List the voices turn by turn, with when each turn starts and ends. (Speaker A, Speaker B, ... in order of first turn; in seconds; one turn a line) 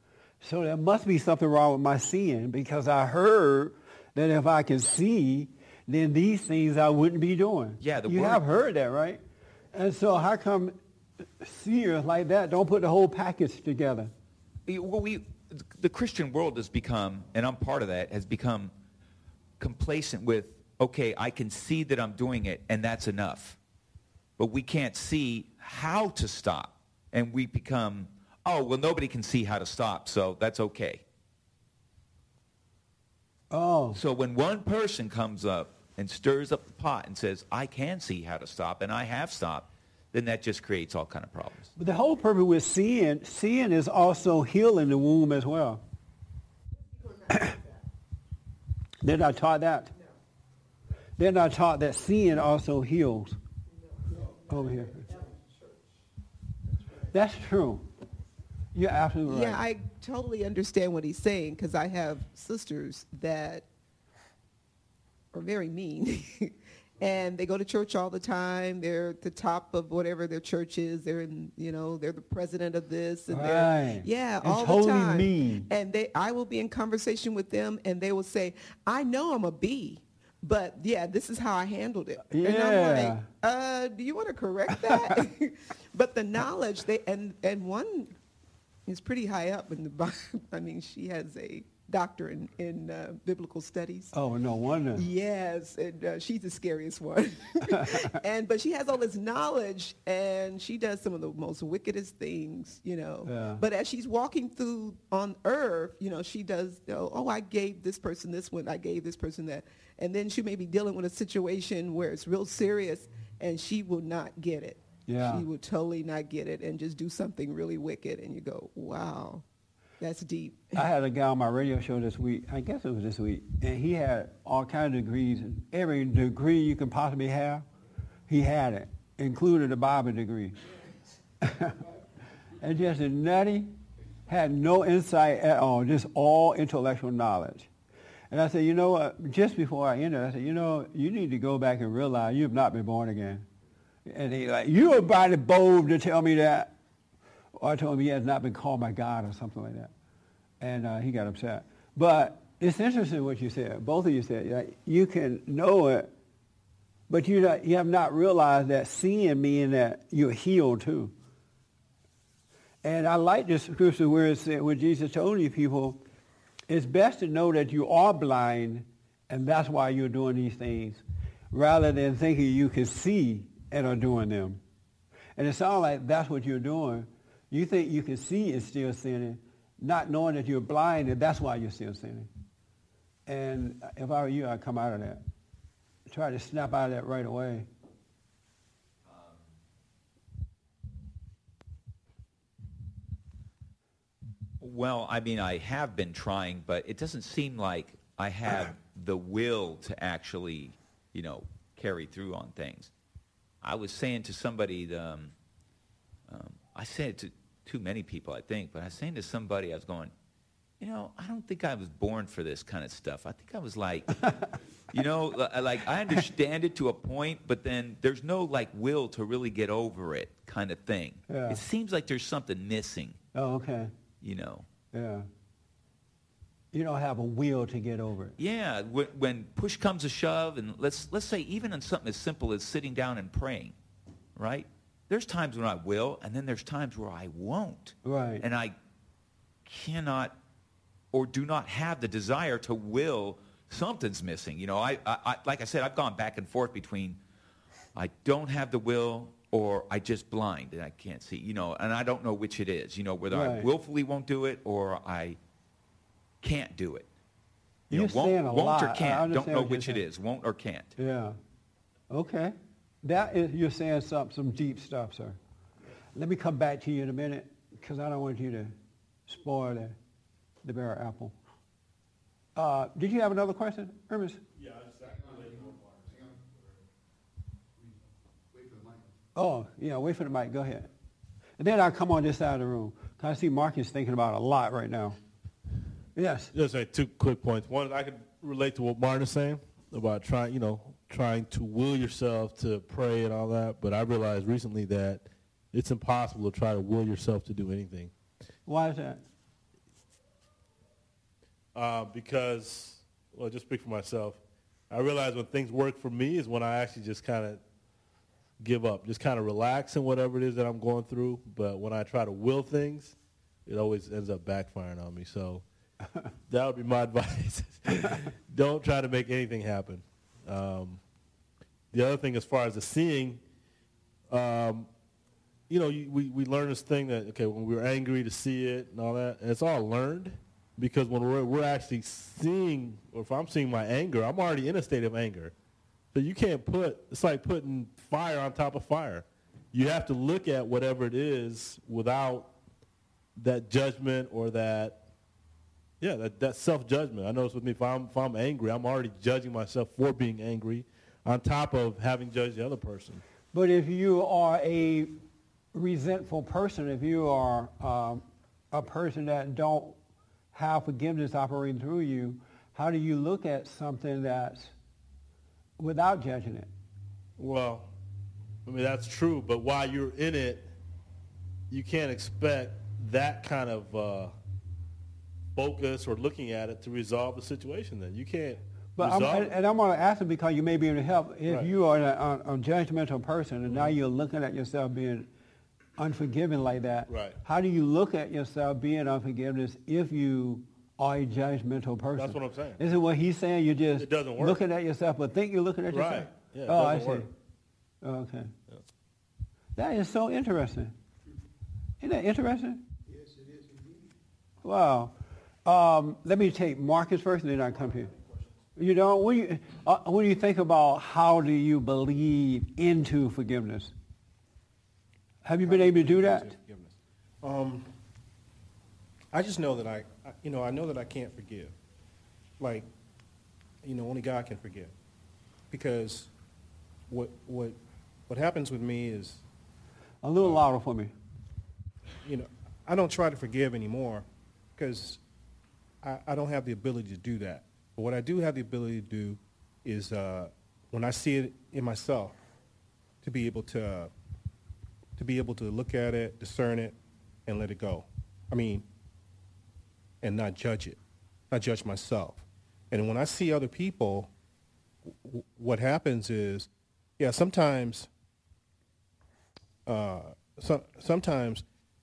Speaker A: 0.4-9.2
Speaker B: 7.8-8.4
Speaker A: 9.7-10.8
Speaker A: 11.4-14.1
Speaker B: 14.7-18.7
Speaker B: 19.6-23.6
Speaker B: 24.4-31.0
Speaker A: 33.5-34.0
Speaker B: 33.9-41.7
Speaker A: 41.8-45.8
Speaker A: 49.0-49.9
Speaker A: 51.2-53.4
Speaker A: 54.5-55.0
Speaker A: 57.1-57.9
Speaker A: 58.7-59.6
Speaker C: 59.2-63.7
Speaker C: 65.3-88.1
Speaker A: 73.3-75.7
Speaker A: 82.3-83.3
Speaker A: 84.7-85.2
Speaker C: 88.8-94.1
Speaker A: 94.1-95.0
Speaker C: 94.9-119.4
Speaker A: 97.7-98.1
Speaker A: 103.2-103.6
Speaker A: 115.1-115.4
Speaker C: 120.0-120.8
Speaker A: 120.7-127.7
Speaker A: 128.3-130.6
Speaker A: 131.4-131.8
Speaker A: 132.6-133.7
Speaker A: 134.3-137.7
Speaker A: 138.3-143.4
Speaker A: 144.1-146.7
Speaker A: 147.5-149.9
Speaker A: 150.6-156.1
Speaker A: 157.1-161.1
Speaker A: 162.8-166.0
Speaker A: 166.7-174.6
Speaker A: 175.3-182.3
Speaker A: 183.3-185.2
Speaker A: 186.1-187.7
Speaker B: 194.6-202.9
Speaker B: 203.6-205.3
Speaker B: 206.3-210.1
Speaker B: 210.8-214.3
Speaker B: 214.9-223.2
Speaker A: 221.3-221.6
Speaker A: 223.3-223.9
Speaker B: 224.2-224.7
Speaker A: 224.9-225.3
Speaker A: 226.7-228.3
Speaker B: 228.4-233.8
Speaker B: 234.3-238.7
Speaker A: 238.0-238.4
Speaker B: 239.7-240.4
Speaker B: 241.1-247.2
Speaker B: 247.9-255.4
Speaker A: 253.3-253.7
Speaker B: 256.4-257.1
Speaker B: 257.9-260.9
Speaker A: 257.9-260.0
Speaker A: 261.0-261.4
Speaker A: 262.1-265.4
Speaker A: 266.1-268.7
Speaker A: 269.3-270.0
Speaker A: 270.6-271.3
Speaker A: 272.6-274.4
Speaker D: 274.6-276.0
Speaker A: 279.3-280.9
Speaker A: 281.6-285.2
Speaker A: 286.1-286.5
Speaker D: 286.5-298.1
Speaker A: 298.6-299.2
Speaker D: 301.7-307.6
Speaker D: 308.6-315.6
Speaker D: 316.5-321.0
Speaker D: 321.9-323.4
Speaker D: 324.3-324.9
Speaker D: 325.7-335.5
Speaker D: 336.1-342.5
Speaker D: 343.4-345.0
Speaker D: 346.0-353.2
Speaker A: 353.5-355.2
Speaker A: 355.7-360.0
Speaker A: 360.5-364.7
Speaker A: 365.8-366.7
Speaker D: 367.4-367.9
Speaker D: 368.6-370.7
Speaker D: 371.7-374.3
Speaker D: 375.5-379.5
Speaker A: 378.9-385.3
Speaker D: 381.5-381.7
Speaker D: 383.7-383.9
Speaker A: 386.0-397.3
Speaker D: 387.1-387.4
Speaker D: 392.2-392.8
Speaker D: 394.0-394.6
Speaker D: 395.9-397.3
Speaker A: 398.0-398.5
Speaker A: 399.8-400.9
Speaker A: 402.0-402.8
Speaker A: 404.6-405.1
Speaker A: 405.6-408.1
Speaker A: 408.8-413.9
Speaker A: 415.4-416.5
Speaker E: 415.6-417.9
Speaker E: 419.3-421.7
Speaker E: 422.6-422.9
Speaker E: 423.8-424.9
Speaker E: 425.7-426.3
Speaker E: 427.1-427.8
Speaker E: 428.3-429.4
Speaker A: 430.2-431.1
Speaker E: 432.2-434.2
Speaker E: 434.8-435.2
Speaker E: 436.0-442.3
Speaker E: 443.2-444.1
Speaker E: 445.2-448.9
Speaker E: 450.2-451.0
Speaker E: 451.5-454.3
Speaker E: 455.2-458.1
Speaker E: 459.9-461.6